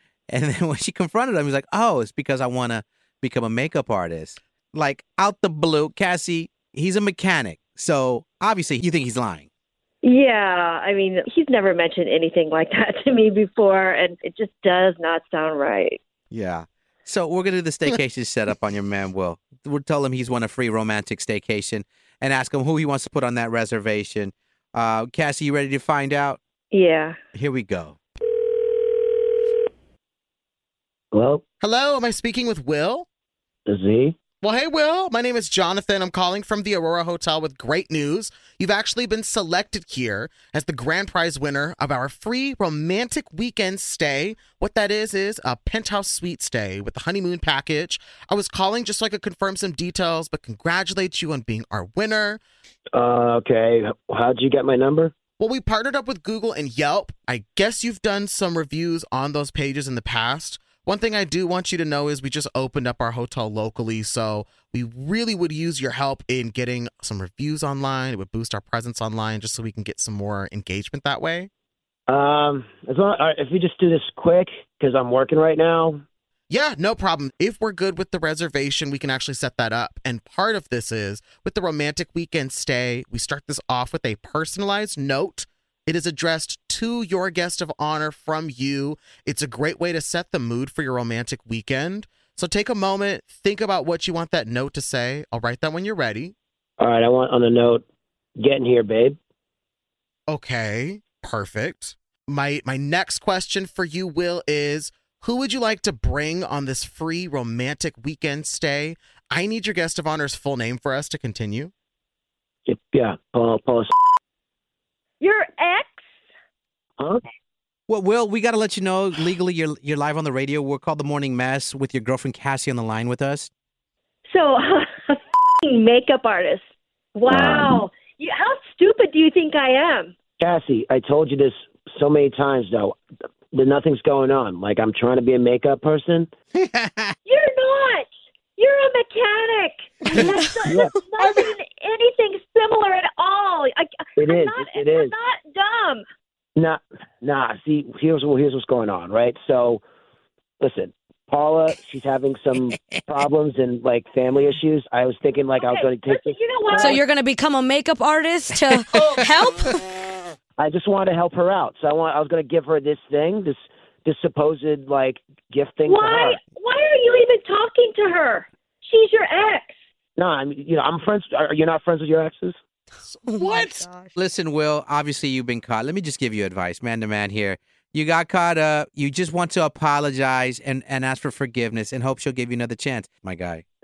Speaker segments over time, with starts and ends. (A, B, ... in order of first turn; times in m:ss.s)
0:00.3-0:09.5 A
0:10.0-0:16.0 B
0:16.3-0:26.4 A
0:26.7-0:27.2 B
0:27.4-0:28.0 A
0:31.1-0:31.4 C
0:31.6-0:33.1 D
0:33.7-0:34.2 C
0:34.4-0:52.4 D
0:52.9-0:55.1 C
0:55.4-1:11.5 D
1:12.1-1:16.0 C
1:16.5-1:36.4 D
1:36.8-1:37.8 C
1:38.4-1:39.2 C
1:40.3-1:51.7 D
1:52.7-1:53.9 C
1:55.2-1:56.0 B
1:57.9-2:03.5 A
2:04.3-2:06.6 B
2:07.2-2:10.1 B
2:07.3-2:07.8 C
2:10.4-2:13.0 C
2:13.5-2:16.3 C
2:16.6-2:17.2 A
2:17.3-2:26.0 B
2:20.7-2:20.9 C
2:24.2-2:25.1 C
2:26.6-2:29.8 C
2:30.6-2:37.0 C
2:35.6-2:37.0 B
2:36.8-2:39.8 E
2:38.7-2:39.3 A
2:40.6-2:46.4 C
2:45.8-2:49.7 B
2:50.2-2:52.6 C
2:53.1-2:53.8 D
2:53.3-2:54.1 E
2:54.2-3:03.6 A